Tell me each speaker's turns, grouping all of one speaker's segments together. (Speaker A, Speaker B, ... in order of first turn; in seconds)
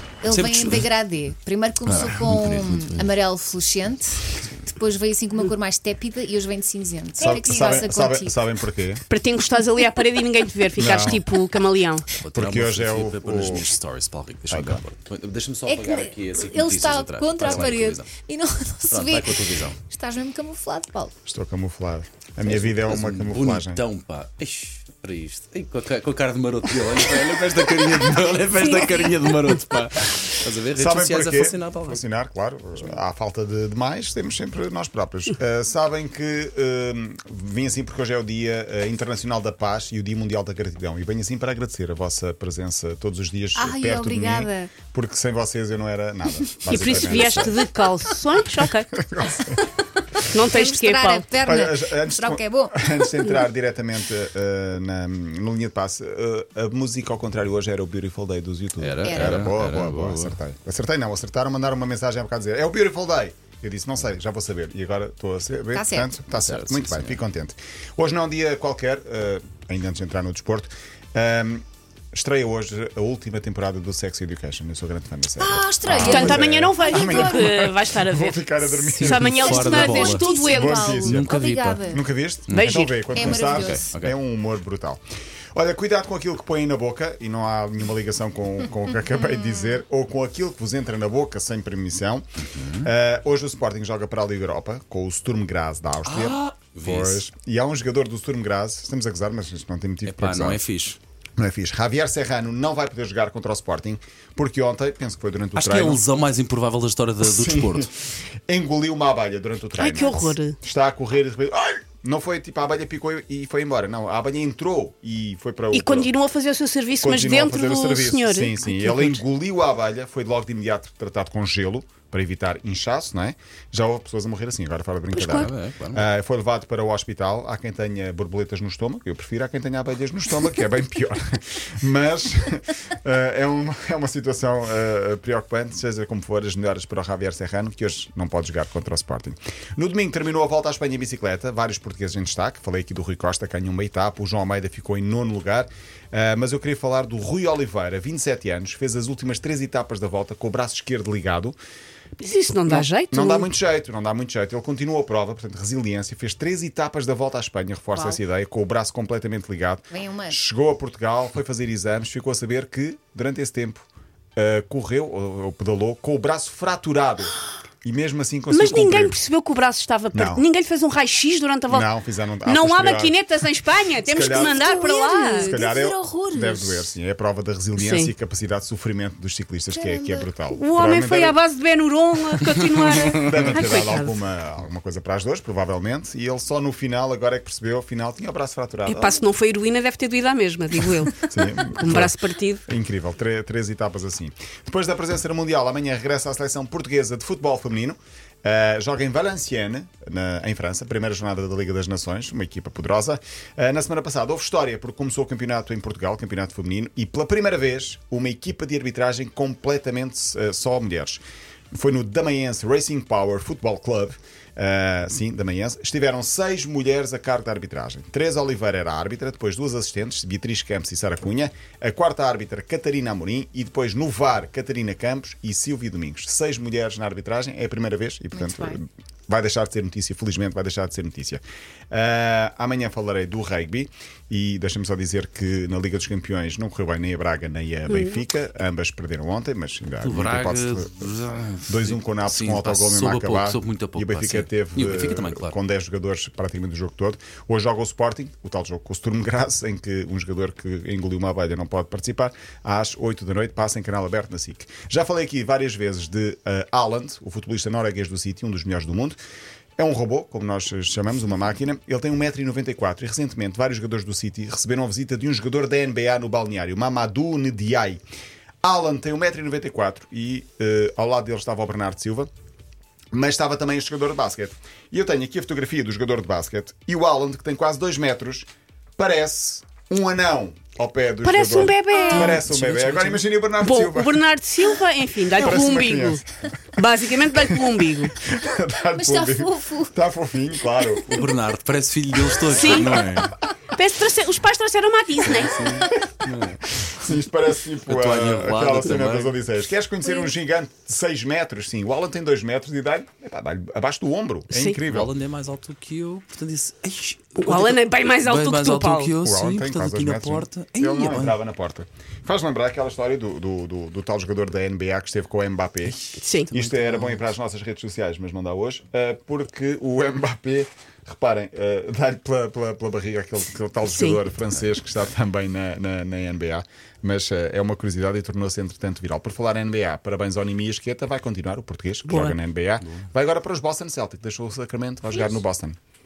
Speaker A: 0.2-8.4, 15.7-21.1, 43.5-44.7, 50.4-52.8, 59.0-59.4, 65.7-66.1, 75.4-77.5, 78.6-82.0, 83.1-83.9, 159.9-160.4, 174.4-176.9, 179.7-180.3, 228.3-228.8, 288.9-289.9
Speaker B: 0.3-0.9, 1.8-3.1, 12.1-18.1, 18.9-19.8, 22.4-32.0, 58.8-60.4, 66.3-67.2, 79.3-80.3, 81.0-81.8, 82.5-84.1, 92.5-92.9, 96.1-97.2, 100.0-101.0, 105.5-107.9, 125.3-126.0, 240.0-245.6, 282.0-283.3, 291.1-293.4, 295.2-296.8, 297.9-299.4, 304.9-311.4, 315.9-317.3
Speaker C: 7.2-9.0, 10.8-11.2, 12.3-13.7, 14.5-14.8, 21.2-23.8, 30.7-47.6, 48.5-49.6, 51.4-85.0, 85.5-92.2, 92.8-100.6, 101.4-106.0, 107.2-107.9, 108.5-116.1, 117.0-151.6, 152.6-163.8, 164.3-169.2, 170.1-170.4, 171.7-173.3, 174.0-174.7, 175.4-181.4, 182.5-189.2, 191.2-192.1, 192.7-241.0, 241.7-259.2, 259.8-268.0, 268.6-272.3, 273.1-284.3, 285.3-286.8, 287.3-287.7, 288.2-291.3, 296.8-305.1, 309.2-335.8
Speaker D: 9.1-12.1, 46.6-48.9, 50.3-51.3, 76.0-80.9, 82.5-82.9, 109.8-110.5, 115.7-119.2, 125.1-125.5, 152.2-153.5, 168.5-171.9, 172.4-175.6, 177.8-178.1, 180.5-184.1, 188.8-192.6, 237.9-238.2, 281.2-282.4, 283.6-286.2, 286.8-288.1, 292.5-293.0, 293.7-295.7, 304.5-304.8, 307.4-309.1, 316.2-316.5, 323.9-324.2, 332.0-332.4